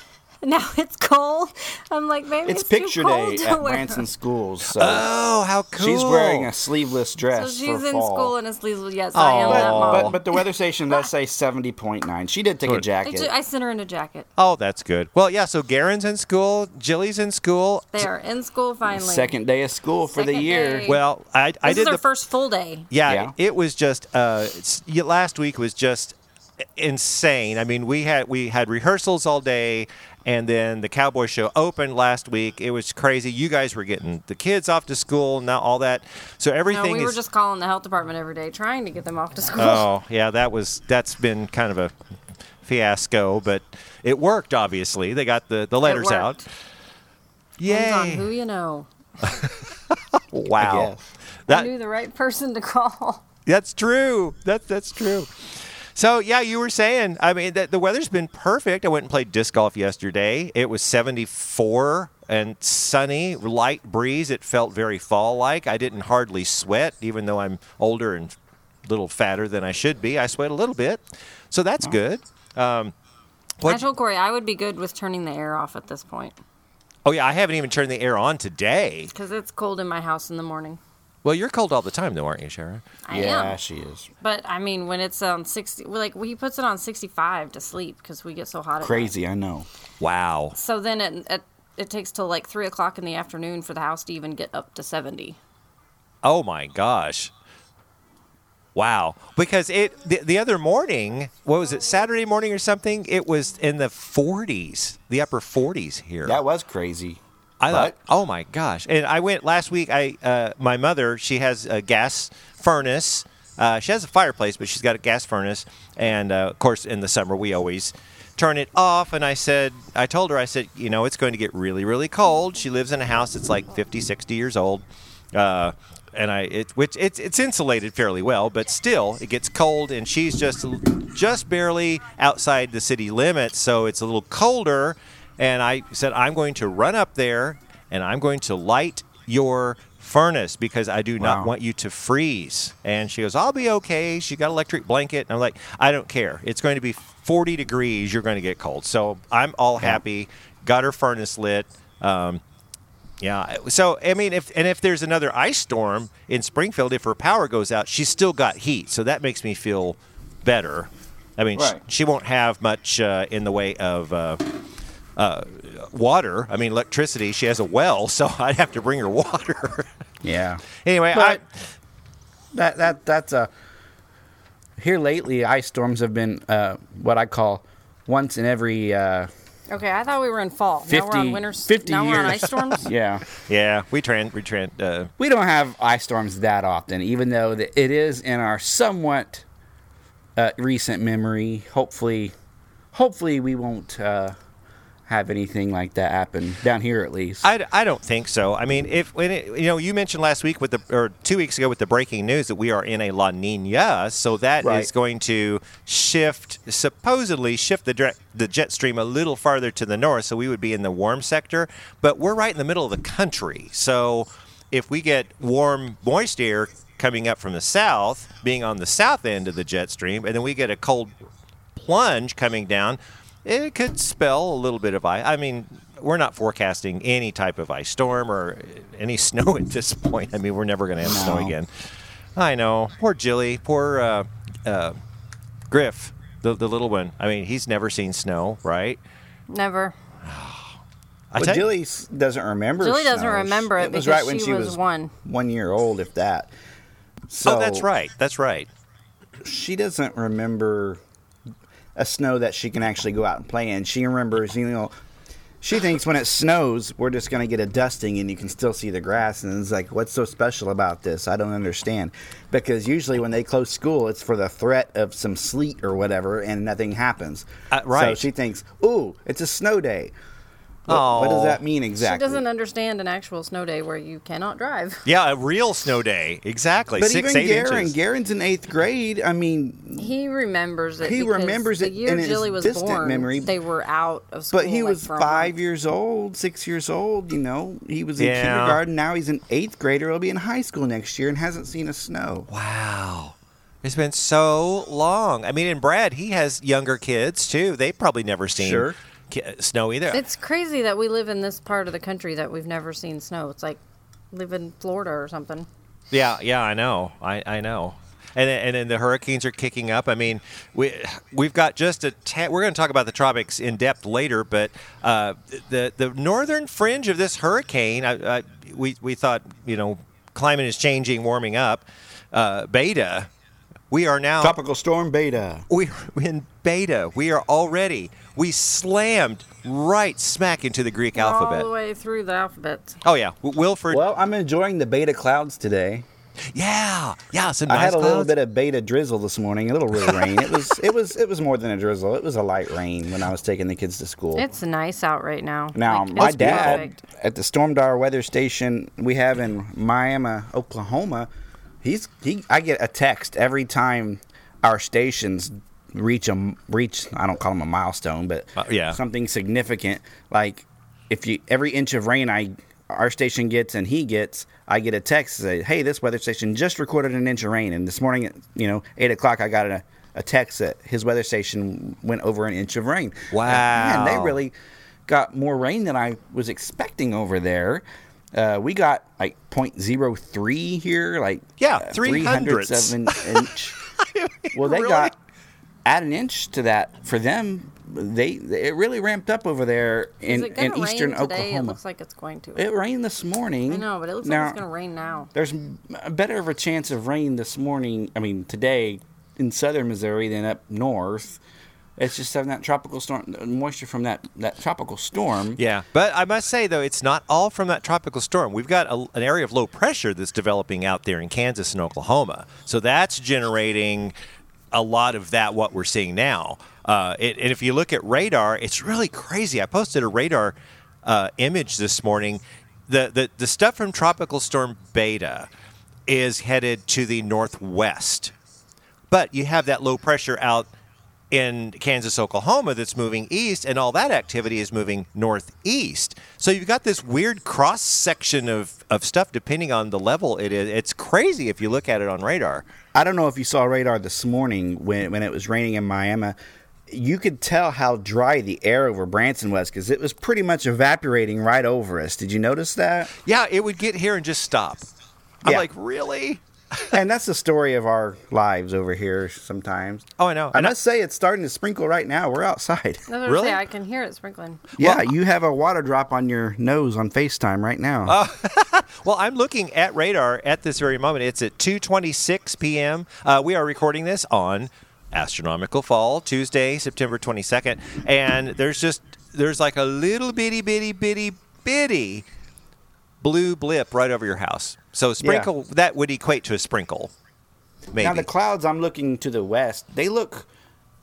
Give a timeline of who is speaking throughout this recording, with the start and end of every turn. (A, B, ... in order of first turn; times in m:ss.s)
0:00.4-0:04.0 A
0:02.4-0:05.1 B
0:04.7-0:06.5 C
0:05.8-0:08.3 B
0:07.3-0:10.4 A
0:09.1-0:10.2 C
0:09.4-0:13.3 B
0:13.0-0:14.3 A
0:14.4-0:18.1 C
0:17.9-0:19.3 A
0:18.9-0:20.9 B
0:20.1-0:21.0 A
0:20.9-0:22.0 C
0:21.6-0:22.9 A
0:22.9-0:26.2 C
0:23.1-0:23.3 B
0:26.8-0:37.2 C
0:36.7-0:39.8 A
0:39.6-0:41.9 C
0:42.6-0:46.4 C
0:45.8-0:46.4 A
0:47.6-0:48.3 C
0:47.6-0:48.9 A
0:49.2-0:50.9 C
0:50.6-0:51.1 B
0:51.5-0:53.2 A
0:53.4-1:12.9 C
1:13.6-1:16.4 A
1:17.0-1:19.1 C
1:19.1-1:20.8 A
1:21.2-1:22.8 C
1:23.0-1:23.6 A
1:23.1-1:24.1 B
1:24.2-1:29.1 A
1:28.8-1:29.7 B
1:30.0-1:30.5 C
1:30.6-1:35.4 A
1:36.2-1:37.3 C
1:38.7-1:46.4 C
1:46.2-1:47.9 B
1:47.6-2:32.4 C
2:21.2-2:21.5 B
2:33.2-2:44.5 C
2:41.5-2:41.8 B
2:45.2-2:49.9 C
2:50.2-2:50.6 B
2:50.7-2:51.4 C
2:52.5-2:53.5 B
2:54.8-2:59.3 B
2:59.7-3:02.9 A
3:00.8-3:03.2 B
3:03.4-3:05.1 C
3:05.2-3:09.4 B
3:10.4-3:12.3 B
3:12.9-3:14.4 B
3:15.1-3:17.4 B
3:17.4-3:41.1 C
3:24.6-3:24.9 B
3:41.7-3:51.7 C
3:51.0-3:51.5 B
3:52.4-3:55.0 C
3:55.7-3:59.0 C
3:59.5-4:00.0 A
4:00.2-4:00.7 C
4:01.3-4:01.7 C
4:01.4-4:06.5 B
4:02.8-4:05.1 A
4:07.3-4:07.9 B
4:07.4-4:08.7 C
4:09.4-4:11.0 B
4:11.9-4:14.9 B
4:15.6-4:30.1 B
4:27.7-4:28.3 C
4:30.9-4:31.6 C
4:30.9-4:32.4 B
4:32.0-4:35.0 A
4:35.0-4:38.0 C
4:37.0-4:40.1 B
4:40.0-4:45.5 A
4:41.0-4:43.5 B
4:44.5-4:52.5 B
4:48.2-4:48.8 C
4:52.5-5:00.2 C
4:58.5-4:59.0 B
5:00.1-5:03.8 A
5:04.3-5:05.7 A
5:06.1-5:23.3 C
5:23.9-5:24.6 C
5:24.4-5:25.7 B
5:25.7-5:31.7 C
5:31.1-5:33.0 A
5:33.0-5:34.0 C
5:33.9-5:36.1 B
5:36.5-5:38.3 C
5:37.7-5:44.5 B
5:44.4-5:47.0 A
5:45.7-5:51.3 B
5:46.2-5:46.8 C
5:51.8-6:14.5 B
5:58.6-5:59.0 C
6:13.3-6:14.4 C
6:15.1-6:23.8 B
6:21.6-6:25.1 C
6:24.5-6:25.2 B
6:25.8-6:31.8 B
6:30.2-6:32.6 A
6:32.6-6:34.6 B
6:33.7-6:35.3 A
6:35.3-6:41.4 B
6:42.0-6:45.6 B
6:45.6-6:54.1 C
6:54.7-7:05.5 C
7:06.1-7:08.3 C
7:09.1-7:10.7 C
7:11.3-7:22.6 C
7:22.9-7:26.4 B
7:26.9-7:33.1 B
7:33.2-7:34.8 C
7:35.4-7:36.9 C
7:36.9-7:43.0 B
7:40.2-7:40.7 C
7:43.1-7:44.7 A
7:43.2-7:43.6 C
7:44.8-7:45.1 C
7:44.8-7:48.2 B
7:48.0-8:02.2 C
8:03.2-8:07.1 C
8:05.2-8:05.5 B
8:07.9-8:08.3 C
8:08.0-8:10.5 B